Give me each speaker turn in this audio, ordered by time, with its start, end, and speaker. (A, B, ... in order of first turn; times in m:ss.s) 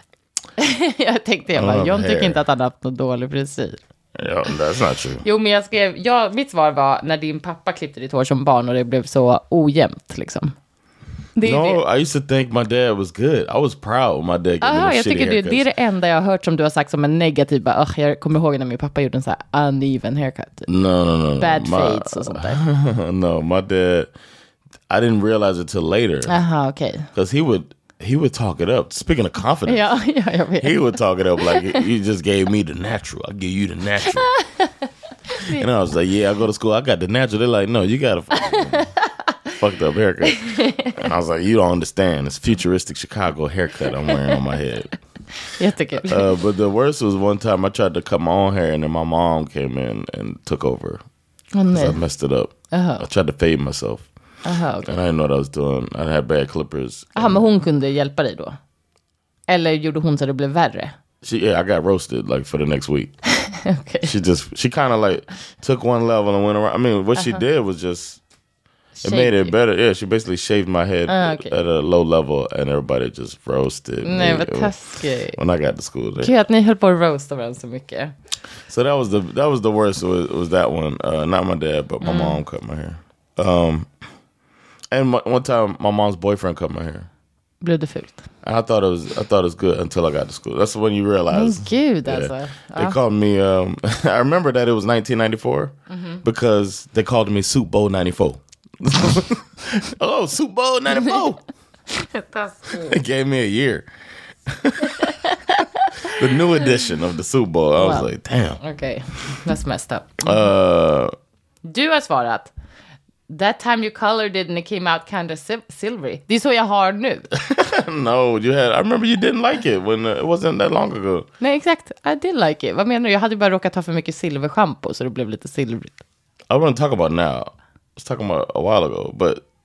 0:00.6-0:03.8 A
0:01.5-0:02.4 B
0:04.2-0:05.2 B
0:05.2-0:10.6 A
0:11.4-0:11.8 A
0:11.4-0:15.7 B
0:14.6-0:20.7 A
0:20.7-0:24.1 B
0:21.4-0:22.6 A
0:24.9-0:26.3 B
0:26.2-0:27.1 A
0:27.1-0:30.0 B
0:29.7-0:30.9 A
0:30.6-0:34.3 B
0:31.4-0:31.8 A
0:34.2-0:34.7 A
0:35.3-0:35.7 A
0:35.6-0:38.9 B
0:38.7-0:39.1 A
0:39.6-0:44.9 B
0:40.2-0:40.9 A
0:44.0-0:44.4 A
0:45.6-0:46.4 A
0:46.0-0:51.0 B
0:51.5-0:52.0 A
0:51.7-0:54.1 B
0:52.7-0:53.1 A
0:54.4-0:55.0 A
0:54.8-0:57.5 B
0:57.2-0:58.6 A
0:59.5-1:00.9 A
1:01.2-1:03.1 B
1:03.4-1:04.1 A
1:04.0-1:08.2 B
1:07.2-1:07.4 A
1:09.0-1:09.5 A
1:09.0-1:14.8 B
1:11.1-1:11.5 A
1:14.0-1:15.4 A
1:15.3-1:16.3 B
1:16.2-1:18.1 A
1:18.7-1:23.9 B
1:22.0-1:22.4 A
1:24.9-1:27.1 B
1:27.6-1:28.2 A
1:28.4-1:41.4 B
1:31.3-1:33.0 A
1:35.9-1:36.2 A
1:41.9-1:43.0 A
1:42.8-1:43.9 B
1:44.5-1:45.2 B
1:44.9-1:46.1 A
1:46.1-1:48.6 B
1:47.8-1:48.1 A
1:48.6-1:50.5 A
1:50.2-1:51.1 B
1:51.6-1:52.5 A
1:53.3-1:57.4 A
1:57.4-2:01.3 B
2:01.4-2:06.0 A
2:06.5-2:09.4 B